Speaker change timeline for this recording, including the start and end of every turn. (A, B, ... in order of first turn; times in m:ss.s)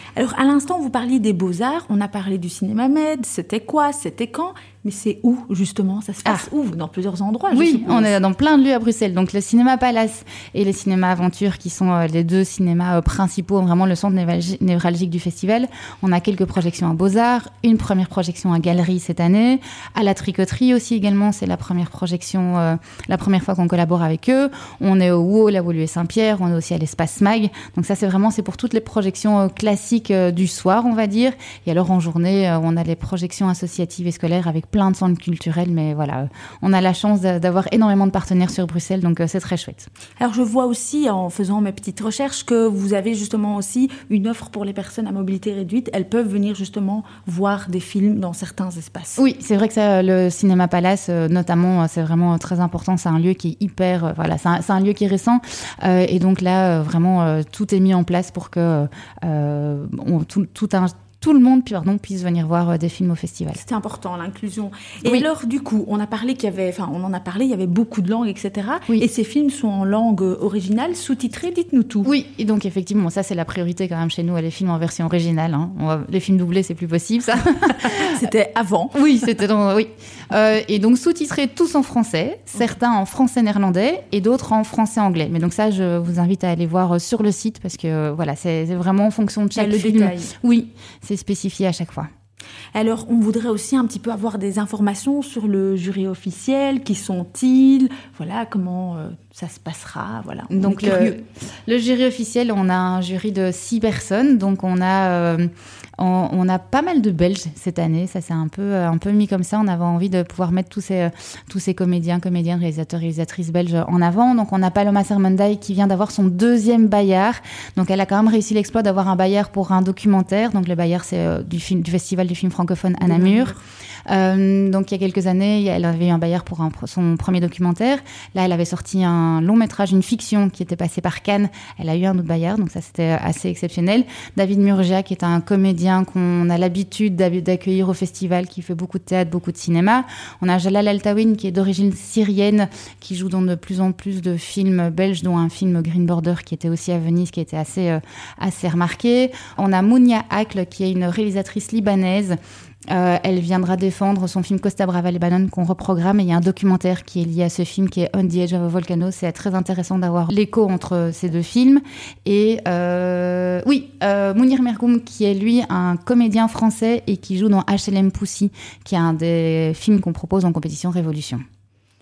0:00.2-0:08.1 A
0:07.5-0:39.9 B
0:40.2-0:49.2 A
0:49.2-1:03.6 B
1:03.6-1:12.1 A
1:12.0-1:18.2 B
1:17.8-1:19.0 A
1:18.9-1:32.1 B
1:29.5-1:30.3 A
1:32.7-1:41.2 A
1:40.5-2:03.5 B
2:03.0-2:03.6 A
2:04.1-2:32.4 B
2:32.9-2:51.4 B